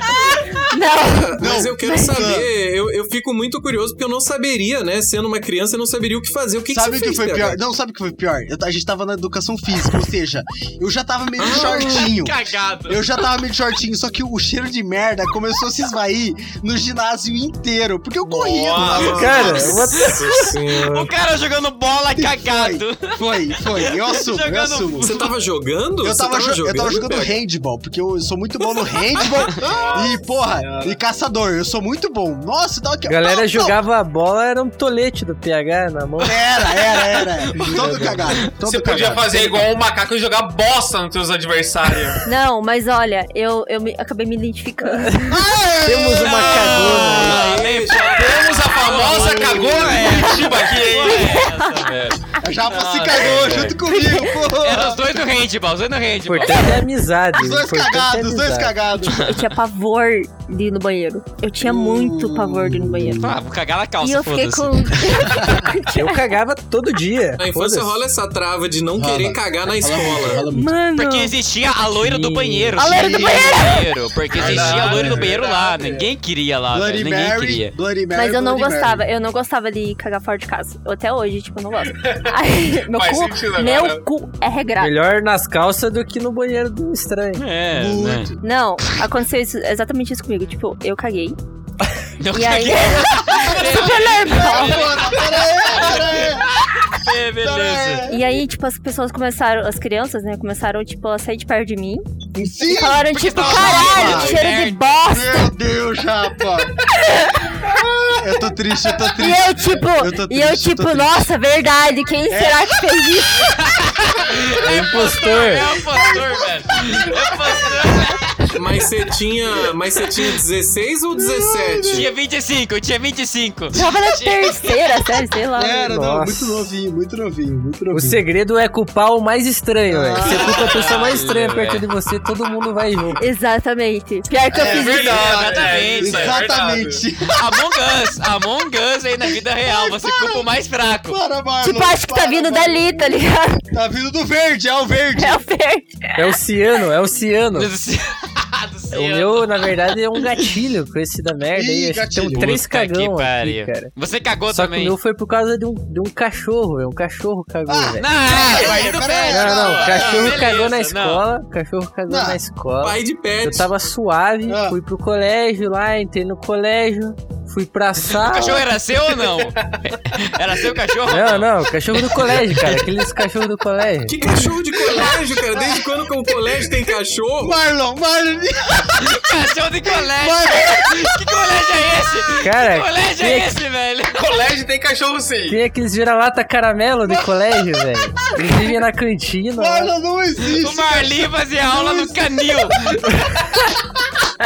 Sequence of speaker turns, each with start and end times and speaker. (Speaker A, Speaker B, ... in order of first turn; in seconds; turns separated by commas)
Speaker A: 0.3-2.2, Speaker B: 1.1-7.6, Speaker C: 1.4-2.5, Speaker C: 6.7-12.3, Speaker B: 11.4-12.1, Speaker D: 11.4-13.1, Speaker C: 12.9-19.8, Speaker E: 18.2-19.6, Speaker B: 18.7-21.1, Speaker F: 19.1-20.1, Speaker D: 20.0-25.3, Speaker C: 22.1-25.1, Speaker B: 25.0-27.4, Speaker C: 26.0-33.8, Speaker E: 29.5-31.0, Speaker F: 33.1-36.4, Speaker C: 36.2-39.7, Speaker D: 37.5-37.8, Speaker F: 37.6-38.2, Speaker E: 38.6-42.3, Speaker A: 42.2-45.4, Speaker F: 45.0-45.3, Speaker C: 45.3-46.9, Speaker F: 45.8-47.4, Speaker D: 46.1-53.8, Speaker B: 47.0-49.6, Speaker E: 48.0-51.4, Speaker A: 51.2-51.9, Speaker C: 52.4-55.0, Speaker A: 53.9-54.3, Speaker D: 54.6-56.6, Speaker F: 56.2-58.7, Speaker C: 57.4-59.2, Speaker D: 59.0-59.4, Speaker A: 59.1-63.3, Speaker C: 61.6-63.4, Speaker D: 63.2-65.6, Speaker A: 64.0-66.2, Speaker F: 65.9-68.0, Speaker B: 67.4-70.4, Speaker C: 69.0-70.7, Speaker F: 70.5-70.8, Speaker A: 70.7-71.3, Speaker D: 71.0-77.7, Speaker F: 72.0-72.8, Speaker A: 72.8-73.9, Speaker C: 72.8-73.6, Speaker E: 74.3-76.0, Speaker C: 74.4-76.0, Speaker C: 76.7-79.0, Speaker A: 78.1-84.9, Speaker E: 81.9-84.0, Speaker F: 84.8-87.4, Speaker D: 87.4-88.3, Speaker C: 87.7-88.4, Speaker A: 88.4-91.4, Speaker D: 92.2-98.0, Speaker A: 92.3-94.9, Speaker C: 93.4-96.5, Speaker C: 97.4-98.2, Speaker A: 98.1-102.0, Speaker C: 102.3-104.4, Speaker A: 102.7-105.5, Speaker D: 103.1-104.8, Speaker C: 105.1-106.7, Speaker A: 107.0-107.5, Speaker E: 107.7-108.4, Speaker C: 108.2-111.3, Speaker A: 109.2-113.5, Speaker C: 112.3-112.8, Speaker D: 113.4-118.3, Speaker F: 114.6-115.6, Speaker C: 115.9-118.1, Speaker B: 118.5-122.1, Speaker C: 121.2-122.1, Speaker D: 121.9-124.6, Speaker A: 123.7-125.8, Speaker C: 125.5-128.2, Speaker F: 125.8-126.7, Speaker F: 127.9-133.2, Speaker C: 129.9-130.8, Speaker D: 130.2-131.8, Speaker A: 133.2-135.1, Speaker D: 134.4-136.4, Speaker C: 134.5-137.6, Speaker E: 134.6-137.0, Speaker D: 137.3-141.2, Speaker C: 139.7-143.2, Speaker A: 141.6-143.6, Speaker C: 143.7-145.4, Speaker A: 145.2-146.3, Speaker F: 146.2-147.7, Speaker D: 147.5-149.7, Speaker F: 148.9-153.9, Speaker C: 151.5-152.5, Speaker D: 152.3-154.9, Speaker F: 154.5-158.1, Speaker C: 157.7-160.6, Speaker D: 158.0-161.2, Speaker F: 159.3-168.6, Speaker C: 162.1-162.4, Speaker B: 162.8-163.7, Speaker C: 164.5-164.8, Speaker D: 168.1-172.9, Speaker F: 171.1-174.1, Speaker B: 174.1-177.6, Speaker C: 174.8-175.8, Speaker C: 177.4-179.2, Speaker D: 179.0-184.2, Speaker C: 179.9-181.1, Speaker F: 182.4-183.5, Speaker E: 184.1-185.6, Speaker F: 185.5-189.9, Speaker C: 189.6-193.1, Speaker D: 190.4-193.3